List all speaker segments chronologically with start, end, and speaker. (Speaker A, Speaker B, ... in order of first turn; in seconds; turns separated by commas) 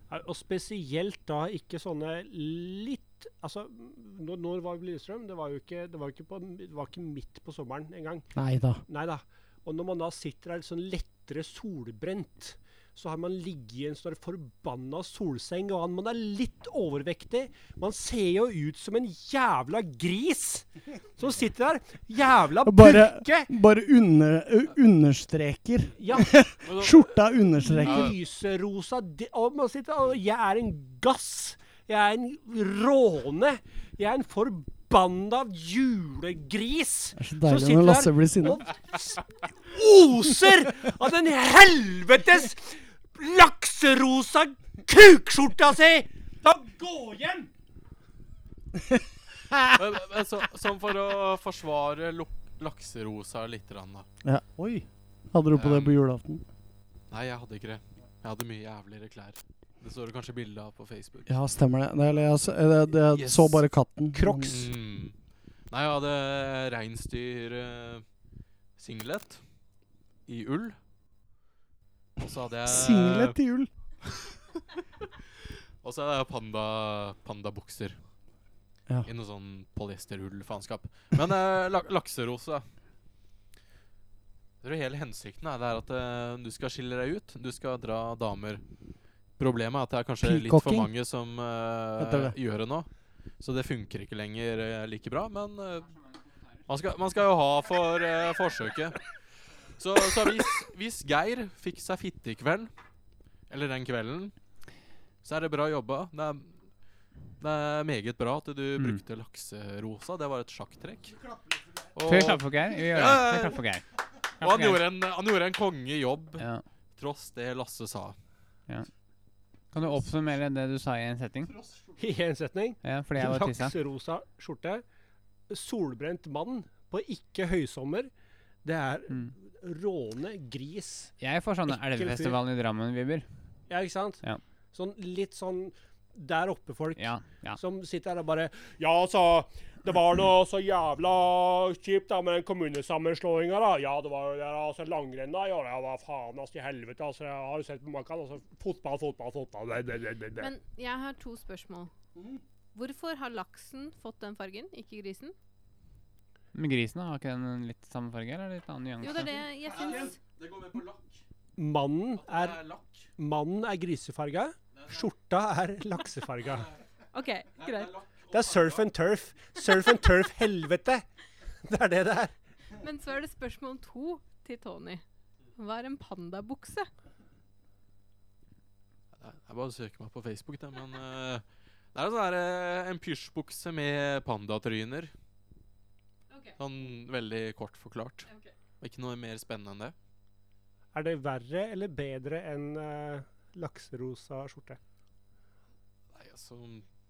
Speaker A: 0.1-23.5, Speaker B: 8.3-8.8, Speaker B: 22.7-28.1, Speaker A: 26.0-26.4, Speaker C: 26.6-27.1, Speaker A: 27.6-47.5, Speaker C: 27.8-28.1, Speaker B: 37.2-38.6, Speaker C: 49.7-54.1, Speaker B: 54.2-56.4, Speaker C: 55.5-56.0, Speaker C: 57.1-61.3, Speaker B: 61.3-64.6, Speaker C: 63.1-63.7, Speaker A: 64.1-64.7, Speaker C: 64.5-68.1, Speaker C: 68.8-69.4, Speaker C: 70.3-70.8, Speaker C: 72.2-73.4, Speaker B: 72.7-73.7, Speaker C: 75.8-78.2, Speaker C: 79.0-82.7, Speaker C: 84.6-88.6, Speaker C: 89.4-96.0, Speaker B: 90.2-90.9, Speaker B: 92.0-92.3, Speaker D: 96.0-96.3, Speaker C: 96.7-99.1, Speaker C: 99.7-102.7, Speaker C: 103.5-104.4, Speaker C: 105.2-106.7, Speaker C: 107.4-111.2, Speaker D: 108.8-109.0, Speaker B: 111.2-111.9, Speaker C: 112.0-113.6, Speaker D: 112.0-114.8, Speaker C: 114.4-118.2, Speaker D: 116.4-116.7, Speaker D: 119.7-121.6, Speaker A: 122.0-124.8, Speaker D: 122.8-123.8, Speaker A: 125.5-128.1, Speaker A: 128.6-131.2, Speaker D: 129.1-129.3, Speaker D: 131.2-133.3, Speaker A: 131.7-132.4, Speaker A: 133.7-150.5, Speaker D: 137.0-137.6, Speaker E: 150.4-151.9, Speaker B: 152.2-152.4, Speaker E: 152.8-155.3, Speaker D: 156.5-159.3, Speaker E: 159.0-160.2, Speaker C: 159.7-161.2, Speaker A: 161.6-166.7, Speaker C: 162.2-163.1, Speaker E: 167.1-168.0, Speaker C: 167.6-168.8, Speaker A: 168.3-171.1, Speaker A: 171.6-172.3, Speaker E: 172.7-175.0, Speaker E: 175.6-176.9, Speaker C: 179.2-185.1, Speaker E: 186.3-186.6, Speaker C: 186.6-188.3, Speaker E: 188.3-188.6, Speaker C: 188.8-189.9, Speaker A: 190.9-194.8, Speaker C: 196.1-196.9